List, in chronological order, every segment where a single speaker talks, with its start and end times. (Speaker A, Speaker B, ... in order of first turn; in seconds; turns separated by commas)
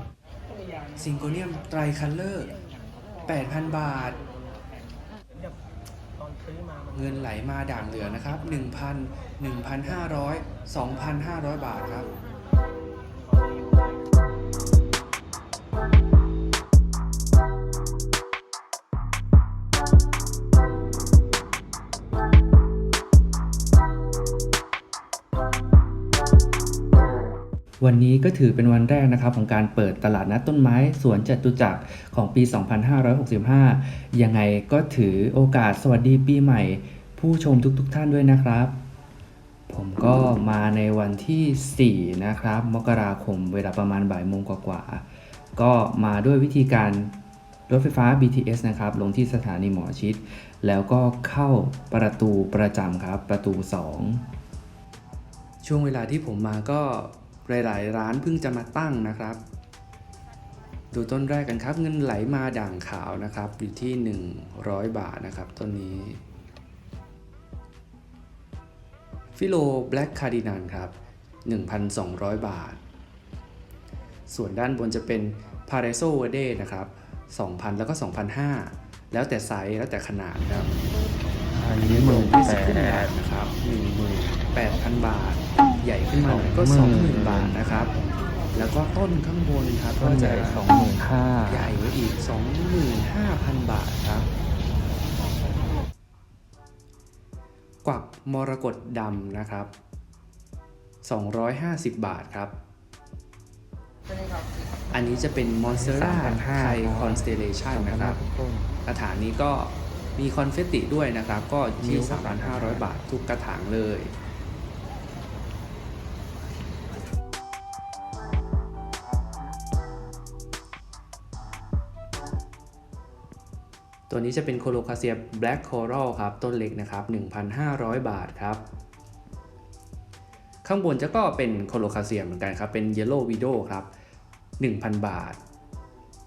Speaker A: 0.9-2.5, Speaker A: 3.2-4.2, Speaker A: 6.9-12.1, Speaker A: 27.8-38.8, Speaker A: 39.7-45.0, Speaker A: 45.5-47.1, Speaker A: 47.7-54.2, Speaker A: 55.6-59.4, Speaker A: 60.9-66.2, Speaker A: 69.3-72.8, Speaker A: 74.3-80.7, Speaker B: 81.5-84.3, Speaker A: 81.8-83.5, Speaker A: 84.5-87.9, Speaker B: 86.2-87.6, Speaker A: 88.5-90.6, Speaker B: 90.0-91.7, Speaker A: 91.5-94.3, Speaker A: 97.8-99.7, Speaker A: 101.0-102.5, Speaker A: 104.9-108.2, Speaker B: 105.7-108.7, Speaker A: 108.8-114.1, Speaker B: 111.8-112.9, Speaker A: 124.1-128.6, Speaker A: 130.6-133.9, Speaker A: 134.6-135.4